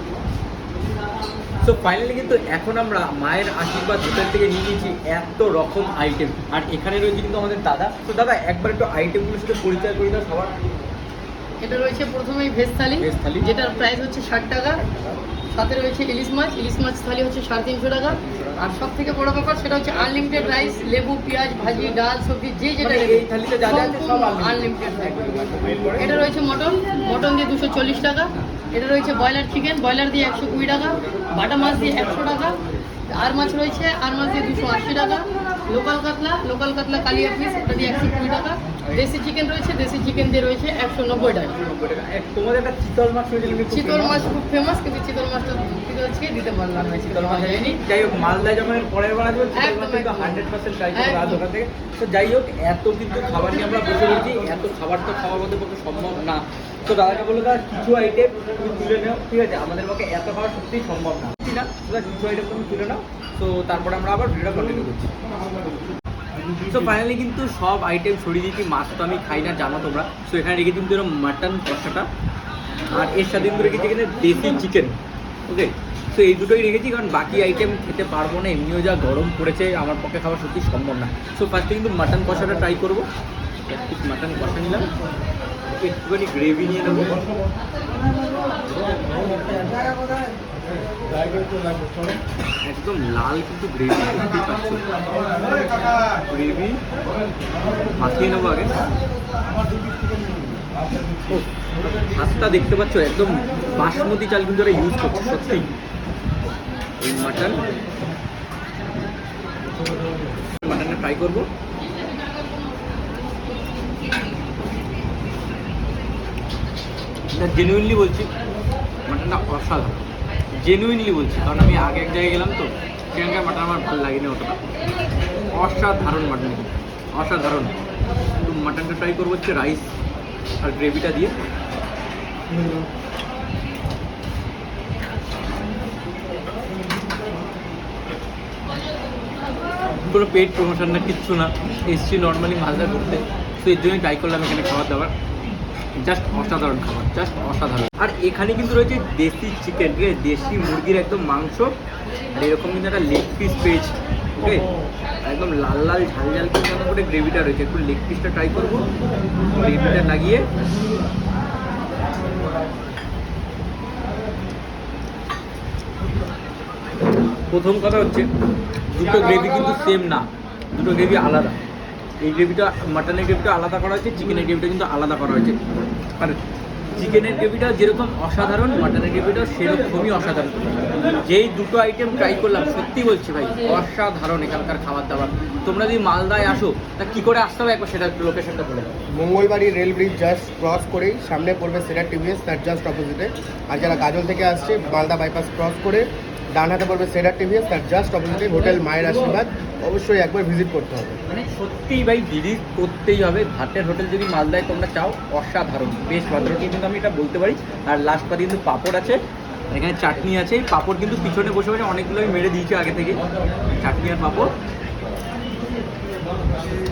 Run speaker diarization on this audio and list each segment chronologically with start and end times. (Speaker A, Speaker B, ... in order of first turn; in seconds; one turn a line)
Speaker A: 1.6-10.5
Speaker B: 11.6-14.8
Speaker A: 13.0-13.5
Speaker A: 14.8-15.2
Speaker B: 15.5-25.2
Speaker A: 18.0-18.9
Speaker A: 22.8-26.2
Speaker B: 26.0-32.6
Speaker B: 33.1-41.5
Speaker A: 41.4-44.3
Speaker B: 43.6-47.8
Speaker A: 47.0-65.1
Speaker B: 49.5-51.4
Speaker A: 66.6-72.1
Speaker A: 72.9-83.1
Speaker A: 83.7-84.9
Speaker A: 85.8-87.2
Speaker A: 92.6-94.9
Speaker A: 96.2-96.8
Speaker A: 98.0-98.8
Speaker A: 102.0-105.7
Speaker A: 107.0-107.6
Speaker A: 110.6-111.5
Speaker A: 117.3-118.3
Speaker A: 119.1-120.0
Speaker A: 120.6-124.6
Speaker A: 125.5-127.7
Speaker A: 128.4-129.9
Speaker A: 130.6-131.3
Speaker A: 140.1-145.1
Speaker A: 145.9-151.7
Speaker A: 152.3-154.7
Speaker A: 155.2-158.9
Speaker A: 159.5-160.5
Speaker A: 167.5-168.3
Speaker A: 168.9-171.6
Speaker A: 172.2-175.6
Speaker A: 176.9-180.6
Speaker A: 181.1-188.9
Speaker C: 189.1-201.2
Speaker A: 199.0-199.3
Speaker A: 201.3-209.2
Speaker A: 209.7-214.5